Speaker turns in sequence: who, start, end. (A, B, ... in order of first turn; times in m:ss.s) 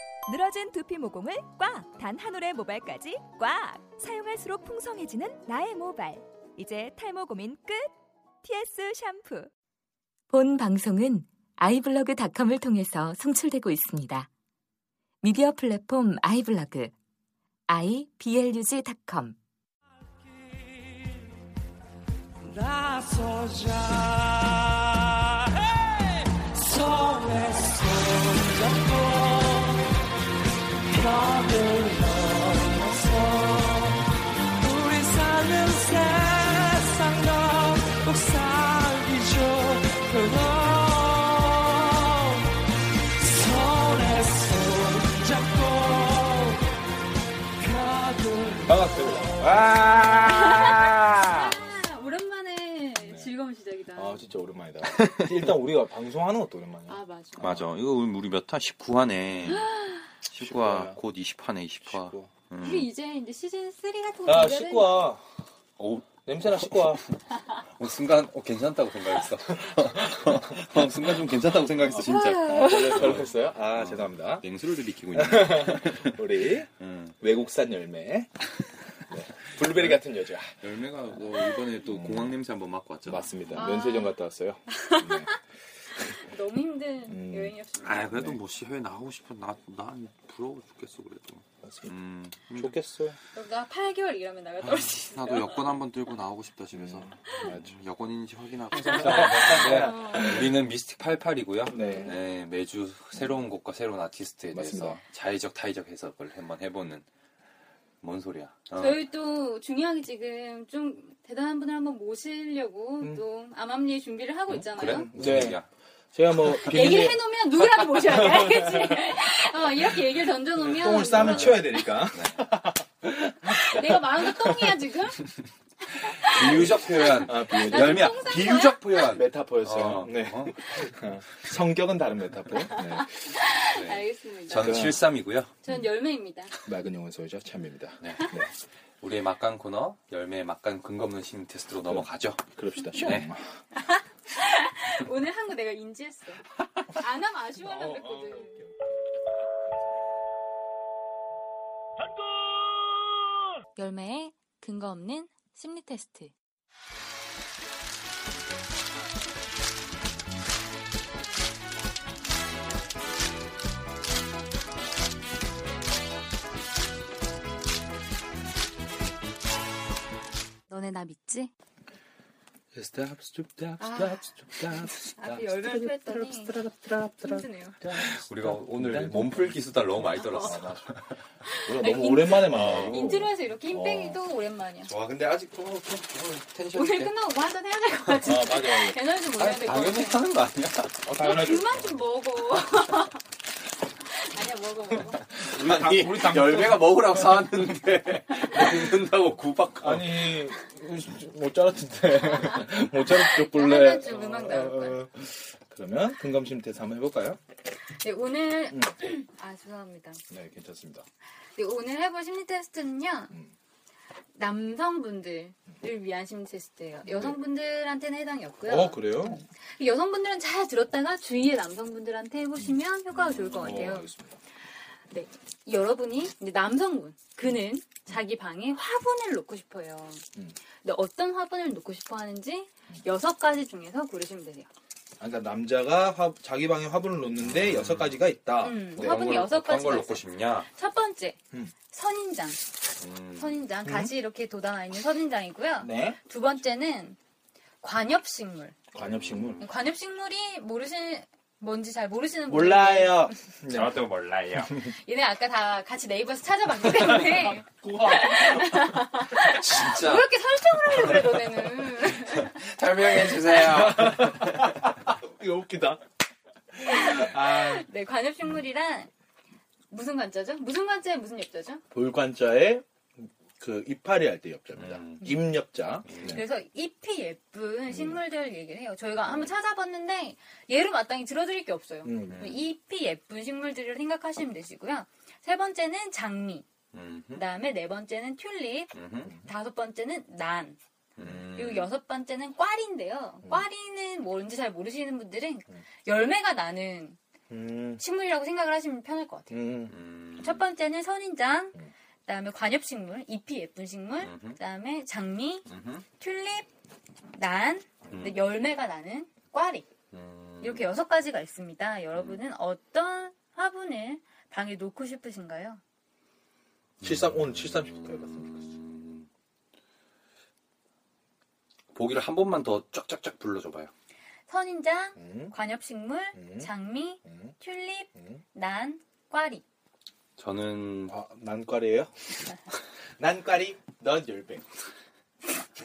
0:00.3-0:09.5 A
0:10.3-0:14.3 B
0:15.2-0:17.0 B
0:17.7-0:19.4 B
0:20.1-0:21.2 C
0:22.4-0:29.9 C
0:30.8-0:42.6 C
0:43.2-0:46.7 C
0:47.6-0:49.6 C
0:48.6-0:51.7 D
0:50.3-0:54.3 E
0:53.0-0:53.3 D
0:53.9-0:57.7 D
0:54.8-0:55.4 F
0:56.9-0:57.4 E
0:57.4-0:59.7 F
0:59.5-1:00.0 E
1:00.3-1:02.9 F
1:00.3-1:01.0 D
1:01.8-1:02.3 D
1:02.6-1:05.1 E
1:04.2-1:05.2 D
1:05.8-1:16.2 F
1:06.0-1:07.0 D
1:09.8-1:11.1 D
1:11.8-1:14.5 D
1:12.0-1:13.2 E
1:15.1-1:16.7 D
1:16.8-1:17.1 F
1:17.2-1:18.5 D
1:19.0-1:22.4 D
1:19.5-1:20.0 F
1:20.5-1:23.3 F
1:23.0-1:25.4 D
1:23.6-1:24.2 E
1:24.7-1:25.4 E
1:26.0-1:26.2 D
1:26.1-1:28.1 E
1:27.0-1:27.6 D
1:27.8-1:32.7 F
1:28.1-1:28.4 D
1:31.6-1:31.9 D
1:32.5-1:33.2 D
1:33.3-1:35.7 E
1:34.6-1:47.0 F
1:36.7-1:37.8 D
1:38.8-1:40.5 E
1:38.9-1:40.6 D
1:41.7-1:42.2 D
1:41.7-1:42.1 E
1:44.5-1:45.0 D
1:48.0-1:49.0 F
1:48.8-1:55.1 E
1:54.5-1:55.7 F
1:55.1-1:55.6 D
1:56.1-1:59.5 D
1:56.5-1:57.1 F
1:56.5-2:02.0 E
2:00.6-2:04.8 D
2:01.1-2:02.4 F
2:03.6-2:05.2 E
2:05.9-2:08.9 E
2:06.2-2:11.0 F
2:06.3-2:08.3 D
2:08.9-2:13.4 D
2:12.8-2:14.9 E
2:13.6-2:15.6 F
2:14.6-2:15.0 D
2:15.6-2:16.5 E
2:16.6-2:18.5 D
2:18.0-2:18.4 F
2:19.0-2:23.3 F
2:21.8-2:23.6 D
2:23.7-2:28.6 E
2:27.6-2:28.8 D
2:33.8-2:36.3 E
2:50.7-2:51.5 E
2:52.7-3:00.9 D
2:53.8-2:54.3 E
2:55.0-2:56.5 E
2:57.2-2:57.8 E
2:57.8-3:01.1 F
3:00.1-3:00.6 E
3:01.4-3:04.9 E
3:01.6-3:04.2 D
3:02.4-3:03.3 F
3:04.8-3:07.1 F
3:06.7-3:10.2 E
3:08.2-3:09.0 D
3:09.3-3:11.7 F
3:11.0-3:11.7 D
3:11.2-3:13.2 E
3:14.1-3:15.2 E
3:15.3-3:17.5 D
3:15.3-3:20.5 F
3:19.8-3:27.4 D
3:22.4-3:25.0 E
3:27.7-3:30.2 E
3:28.7-3:29.0 D
3:30.3-3:31.0 D
3:31.5-3:33.3 E
3:34.4-3:44.1 E
3:37.0-3:37.4 D
3:38.6-3:39.4 D
3:43.4-3:43.8 F
3:43.4-3:44.4 D
3:45.1-3:50.2 E
3:50.8-3:54.7 E
3:55.2-3:59.3 D
3:57.4-3:58.2 F
3:58.6-4:01.4 E
3:58.9-4:00.7 F
4:01.9-4:02.6 E
4:03.0-4:03.6 F
4:03.4-4:07.2 E
4:03.8-4:04.1 D
4:05.8-4:06.2 D
4:07.8-4:08.8 E
4:08.9-4:09.6 D
4:09.0-4:09.7 F
4:09.6-4:13.3 E
4:12.5-4:14.1 D
4:13.7-4:14.9 F
4:14.8-4:22.6 E
4:17.1-4:19.0 D
4:19.4-4:24.9 F
4:23.3-4:26.0 D
4:26.7-4:27.9 D
4:26.9-4:29.1 E
4:29.9-4:31.8 E
4:31.9-4:36.4 D
4:34.8-4:35.4 F
4:36.0-4:36.4 F
4:36.2-4:46.6 E
4:37.9-4:38.2 D
4:42.0-4:42.4 D
4:42.2-4:42.7 F
4:46.9-4:47.4 F
4:47.3-4:48.9 E
4:48.9-4:49.3 F
4:49.4-4:50.8 E
4:51.2-4:51.9 F
4:51.5-4:57.2 E
4:57.5-4:58.0 D
4:58.0-4:59.6 E
4:59.5-4:59.9 D
4:59.9-5:00.6 F
5:00.4-5:05.7 E
5:04.2-5:04.6 F
5:05.7-5:06.0 F
5:06.2-5:06.7 E
5:07.3-5:09.9 E
5:08.1-5:08.4 F
5:10.1-5:10.8 F
5:10.6-5:15.8 E
5:12.1-5:12.4 F
5:17.0-5:19.3 F
5:17.0-5:18.8 D
5:21.9-5:23.9 F
5:24.5-5:29.6 E
5:25.2-5:25.5 D
5:26.3-5:26.7 D
5:27.2-5:27.5 D
5:28.1-5:28.4 D
5:30.4-5:31.2 F
5:31.1-5:32.4 D
5:33.2-5:34.7 D